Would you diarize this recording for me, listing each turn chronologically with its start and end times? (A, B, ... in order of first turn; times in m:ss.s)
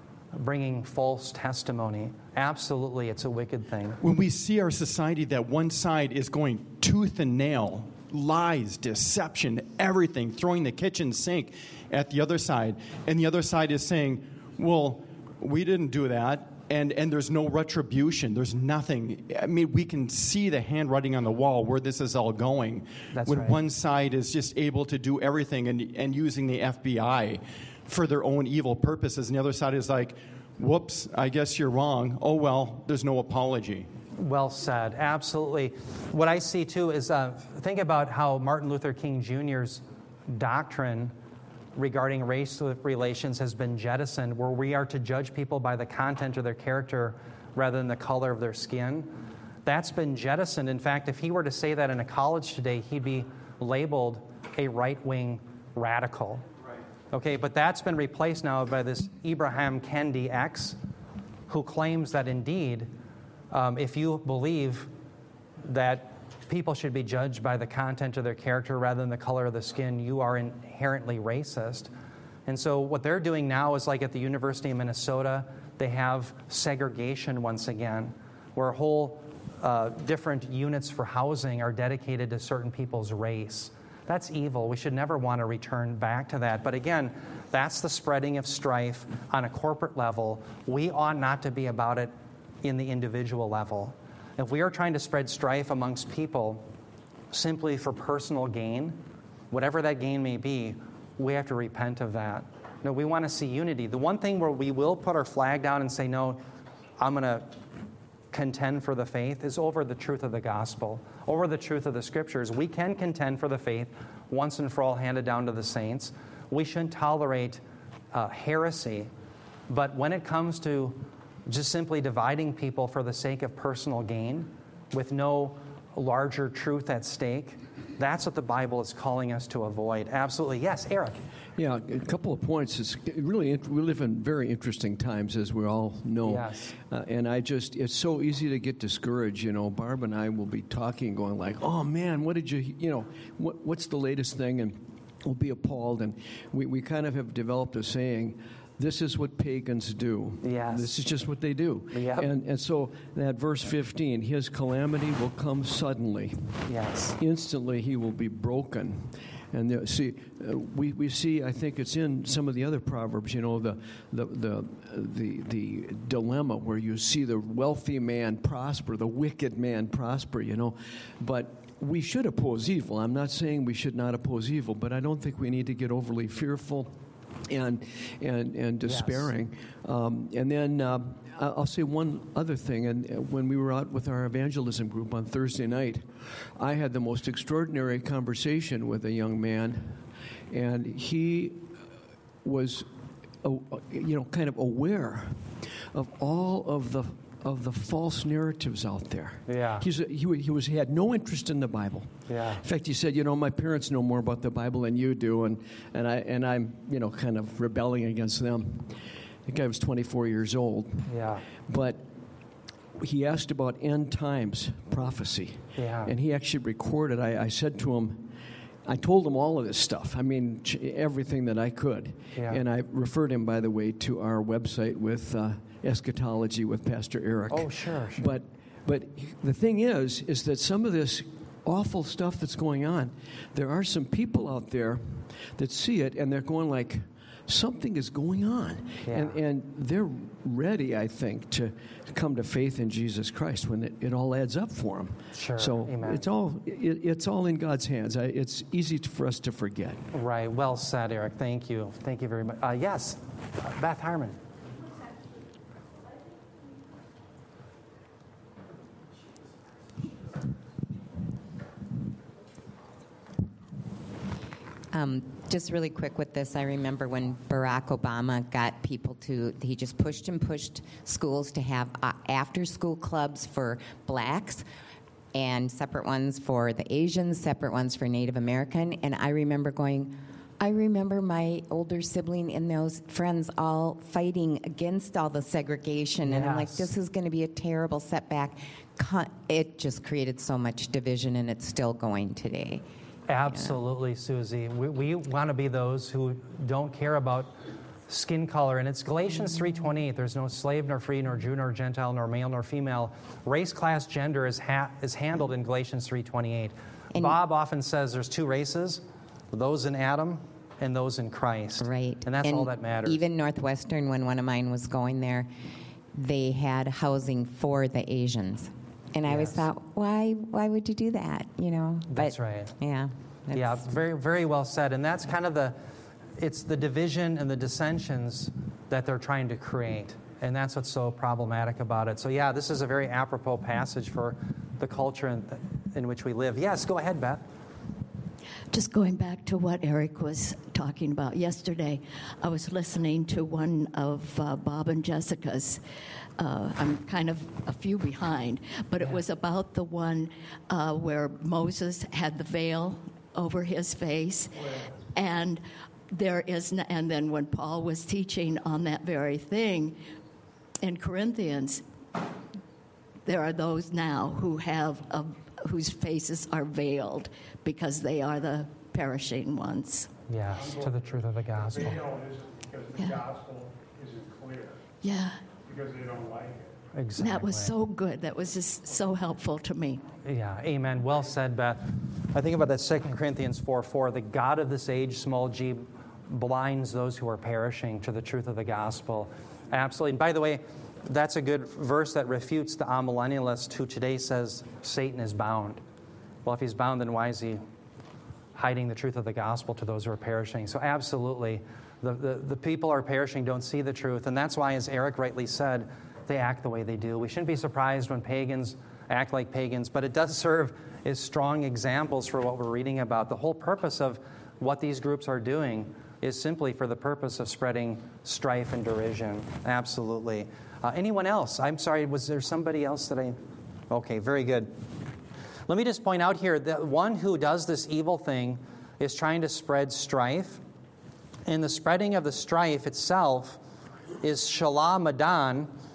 0:00.3-0:04.0 A
0:04.0-0:33.9 B
0:23.1-0:23.6 A
0:34.2-0:41.1 A
0:41.8-0:49.1 A
0:49.7-0:56.4 A
0:57.1-1:00.8 A
1:01.5-1:02.9 A
1:03.5-1:04.9 A
1:05.6-1:11.9 A
1:12.5-1:32.1 A
1:32.6-1:36.6 A
1:37.3-1:39.0 A
1:39.5-1:46.4 A
1:47.0-1:47.5 A
1:48.3-1:57.6 A
1:58.1-1:59.1 A
1:59.7-2:11.2 A
2:11.6-2:36.6 C
2:16.2-2:16.7 A
2:30.4-2:31.0 A
2:31.9-2:32.3 A
2:36.7-2:37.2 A
2:37.2-2:56.9 C
2:57.5-3:11.7 C
2:58.9-2:59.3 A
3:12.4-3:12.9 C
3:13.4-3:32.0 C
3:19.5-3:19.9 A
3:22.3-3:22.6 A
3:31.1-3:31.4 A
3:33.0-3:38.3 C
3:35.8-3:36.1 A
3:38.8-4:10.0 C
3:42.4-3:42.6 A
3:47.5-3:48.3 A
3:59.1-3:59.4 A
4:05.3-4:06.2 A
4:10.1-4:14.4 A
4:24.9-4:34.7 D
4:35.3-4:52.8 D
4:46.2-4:46.9 A
4:53.3-4:57.5 A
4:53.5-4:53.8 D
4:58.1-5:09.0 A
5:09.5-5:13.2 A
5:11.8-5:15.5 D
5:16.1-5:23.8 D
5:19.2-5:19.6 A
5:22.1-5:22.8 A
5:23.5-5:25.8 A
5:26.4-5:37.4 A
5:38.7-5:45.8 E
5:46.4-6:00.0 E
6:00.8-6:01.8 E
6:03.3-6:10.1 E
6:10.3-6:12.0 A
6:12.0-6:14.7 F
6:13.0-6:13.2 E
6:15.0-6:15.4 E
6:15.7-6:16.6 F
6:16.9-6:17.8 A
6:17.2-6:20.0 E
6:20.2-6:35.8 A
6:36.4-6:37.6 A
6:38.6-7:03.4 A
7:03.9-7:04.7 A
7:05.7-7:10.6 A
7:11.4-7:13.6 A
7:14.2-7:15.7 A